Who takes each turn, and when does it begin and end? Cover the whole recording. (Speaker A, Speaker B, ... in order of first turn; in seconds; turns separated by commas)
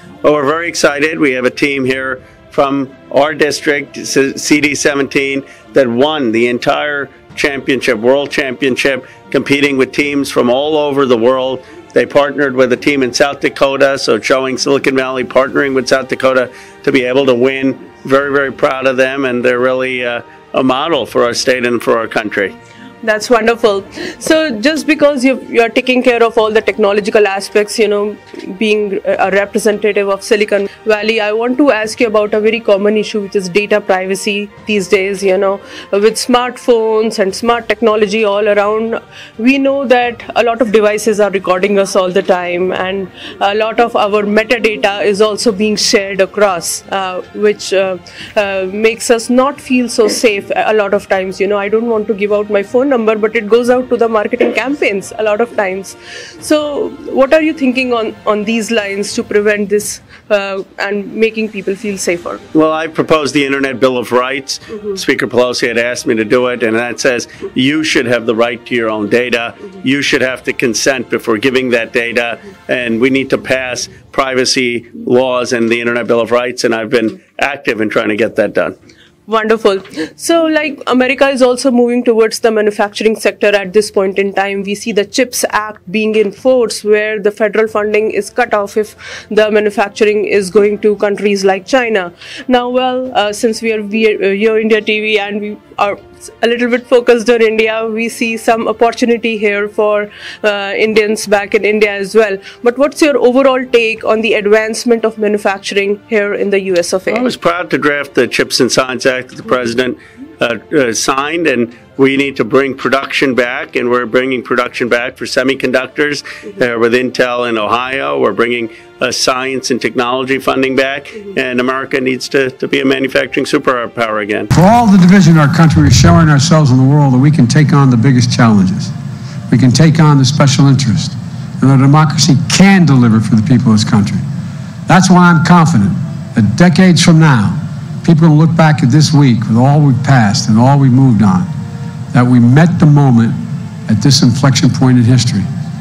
Speaker A: 0.2-22.5, Speaker B: 23.0-62.4, Speaker A: 62.5-78.8, Speaker B: 79.3-107.3, Speaker A: 107.1-124.5, Speaker C: 124.5-128.9, Speaker C: 129.5-134.2, Speaker C: 134.9-141.5, Speaker C: 142.1-145.5